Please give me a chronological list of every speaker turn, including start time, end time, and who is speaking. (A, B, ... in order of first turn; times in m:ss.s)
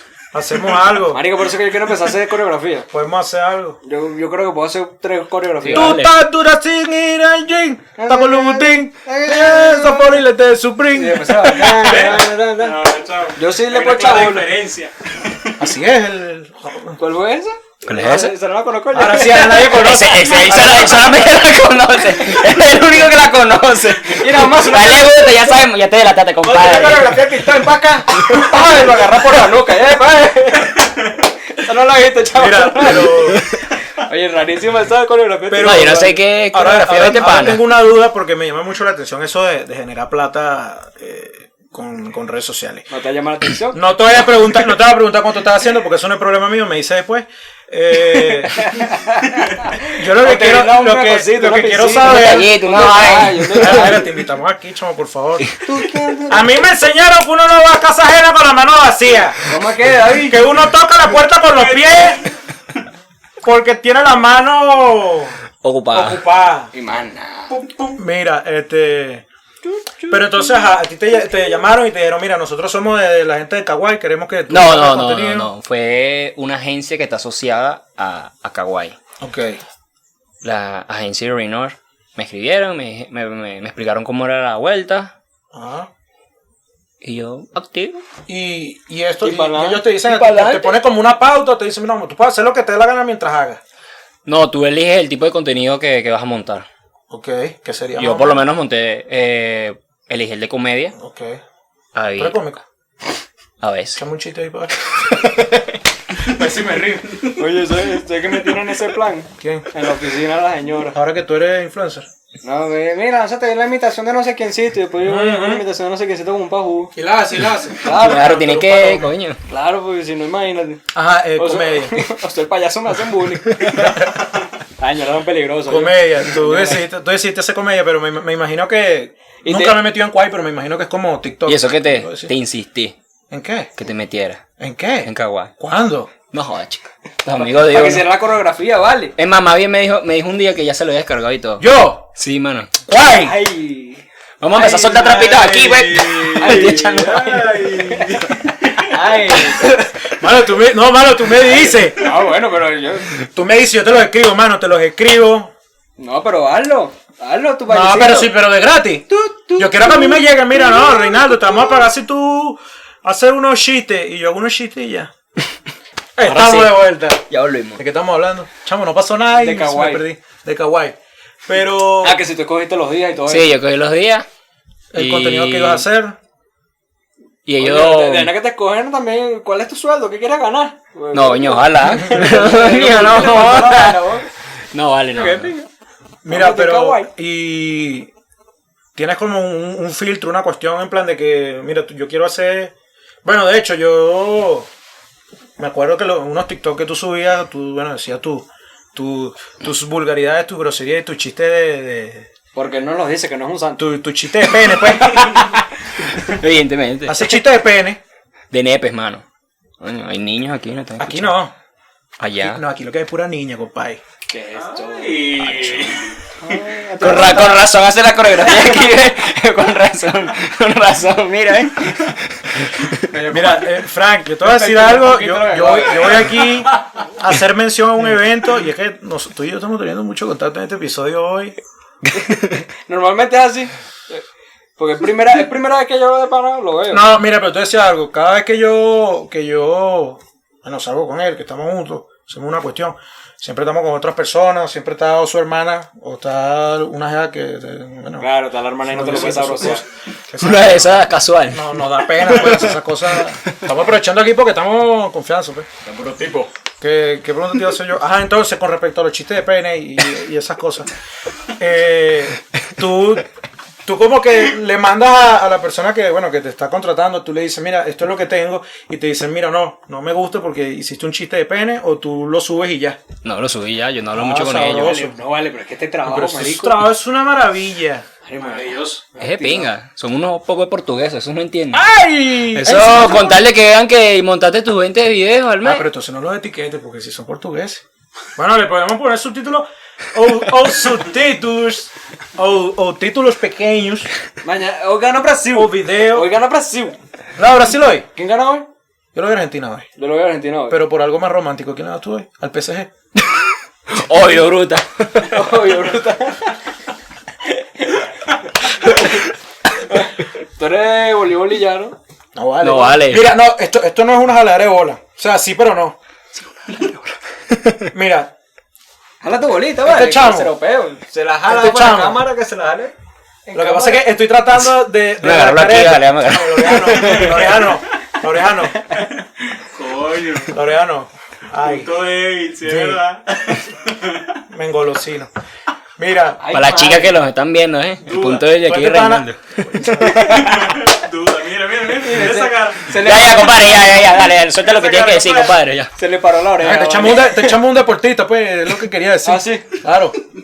0:00.3-0:01.2 A
0:01.1-0:02.9 B
0:02.9-0:03.8 A
0:03.8-0:06.0 B
0:05.6-0:06.1 C
0:05.7-0:12.2 A
0:08.0-0:10.2 B
0:10.9-0:12.8 B
0:11.8-0:15.7 D
0:13.3-0:14.5 B
0:15.6-0:17.0 A
0:17.0-0:19.9 B
0:17.8-0:18.3 C
0:18.9-0:21.2 A
0:19.2-0:27.3 C
0:24.0-0:25.5 B
0:26.4-0:30.9 B
0:31.5-0:33.4 B
0:32.3-0:33.4 A
0:34.0-0:36.2 B
0:35.5-0:42.9 A
0:35.6-0:37.6 C
0:42.9-0:43.8 B
0:43.7-0:48.6 A
0:48.5-0:54.1 B
0:49.9-0:52.5 A
0:52.0-0:54.0 C
0:53.5-0:55.5 A
0:55.6-0:56.4 B
0:56.3-0:59.4 A
0:59.4-1:00.4 B
1:00.2-1:02.2 A
1:01.6-1:02.1 D
1:03.4-1:05.4 A
1:05.6-1:06.2 C
1:05.9-1:06.7 A
1:06.7-1:07.6 B
1:07.5-1:09.2 A
1:09.6-1:10.6 B
1:10.1-1:15.5 A
1:14.5-1:19.0 C
1:19.2-1:19.6 A
1:20.4-1:25.1 C
1:25.5-1:25.9 A
1:27.0-1:28.0 C
1:28.3-1:33.6 A
1:29.2-1:30.8 B
1:34.2-1:36.6 C
1:37.1-1:38.4 A
1:38.0-1:40.9 C
1:41.0-1:41.4 A
1:41.9-1:42.4 C
1:42.2-1:42.6 A
1:43.6-1:44.0 C
1:44.0-1:44.8 A
1:45.1-1:45.7 C
1:46.2-1:47.4 A
1:47.3-1:51.0 B
1:49.4-1:49.7 A
1:50.9-1:52.1 A
1:52.4-1:56.9 B
1:55.0-1:55.6 A
1:56.9-1:59.0 A
1:57.8-2:04.1 B
1:57.8-1:59.4 C
2:00.9-2:02.1 A
2:04.8-2:06.8 B
2:05.7-2:12.3 A
2:09.4-2:09.8 B
2:11.4-2:12.9 C
2:13.3-2:13.7 A
2:13.8-2:14.4 C
2:14.6-2:16.1 A
2:15.0-2:15.5 C
2:16.3-2:18.1 C
2:17.4-2:19.1 B
2:19.2-2:22.7 C
2:21.6-2:22.1 A
2:22.9-2:23.3 A
2:23.1-2:24.0 B
2:24.4-2:27.8 C
2:24.5-2:25.4 B
2:24.6-2:26.8 A
2:26.3-2:29.8 B
2:27.5-2:28.0 A
2:30.0-2:32.1 A
2:31.5-2:33.2 B
2:33.3-2:35.5 A
2:36.0-2:38.4 B
2:37.7-2:45.1 A
2:39.1-2:41.0 B
2:46.2-2:47.2 A
2:46.2-2:47.8 C
2:47.8-2:52.2 A
2:49.4-2:50.0 B
2:52.0-2:53.5 B
2:53.3-2:54.2 C
2:54.9-2:56.2 A
2:54.9-2:55.8 C
2:57.4-2:58.3 C
2:57.6-3:04.3 B
3:01.1-3:04.0 C
3:04.7-3:05.5 C
3:05.1-3:05.6 B
3:06.2-3:08.1 A
3:06.3-3:07.1 B
3:08.9-3:12.7 A
3:13.2-3:14.7 A
3:15.6-3:22.3 A
3:22.5-3:23.9 B
3:23.8-3:25.4 A
3:25.0-3:27.4 C
3:27.0-3:28.0 A
3:28.5-3:29.2 C
3:29.8-3:31.3 C
3:31.0-3:31.5 A
3:32.2-3:32.6 C
3:32.4-3:34.0 A
3:34.3-3:35.4 B
3:34.5-3:36.6 D
3:35.4-3:36.0 A
3:36.4-3:37.6 B
3:37.0-3:43.0 C
3:43.1-3:43.8 B
3:43.3-3:51.6 A
3:44.4-3:46.4 B
3:52.3-3:54.2 B
3:54.8-3:57.0 B
3:56.9-4:08.3 A
4:08.2-4:09.8 B
4:08.8-4:15.7 A
4:10.4-4:12.7 C
4:15.8-4:16.5 B
4:16.8-4:20.9 A
4:21.6-4:23.2 A
4:23.8-4:33.0 A
4:33.2-4:35.0 C
4:34.1-4:35.2 A
4:34.8-4:36.8 B
4:36.0-4:38.1 A
4:38.2-4:39.7 B
4:39.2-4:41.8 C
4:41.7-4:43.4 A
4:42.5-4:45.8 C
4:45.6-4:47.8 A
4:48.4-4:54.1 A
4:54.4-4:57.0 B
4:55.5-4:56.3 A
4:57.4-4:58.1 A
4:58.1-4:58.7 B
4:59.1-4:59.9 A
5:00.0-5:00.8 B
5:00.7-5:02.9 A
5:03.9-5:05.5 C
5:05.2-5:06.6 B
5:07.8-5:08.0 B
5:08.7-5:09.2 B
5:09.8-5:12.0 B
5:12.3-5:16.0 A
5:12.6-5:13.3 C
5:16.6-5:17.0 C
5:17.5-5:17.9 C
5:17.9-5:18.3 A
5:19.2-5:22.9 B
5:19.8-5:20.5 A
5:21.4-5:22.2 A
5:23.4-5:24.0 B
5:23.5-5:28.8 A
5:25.2-5:27.5 C
5:29.6-5:30.6 D
5:30.5-5:31.9 A
5:31.6-5:34.4 D
5:32.6-5:33.0 A
5:34.5-5:35.3 A
5:36.0-5:36.4 A
5:36.4-5:37.2 B
5:36.5-5:39.4 C
5:38.0-5:38.5 D
5:38.4-5:40.3 A
5:39.9-5:40.6 C
5:40.2-5:43.0 D
5:41.9-5:43.9 B
5:43.0-5:45.9 C
5:44.3-5:45.6 D
5:46.0-5:47.5 B
5:46.6-5:50.2 A
5:49.2-5:49.7 B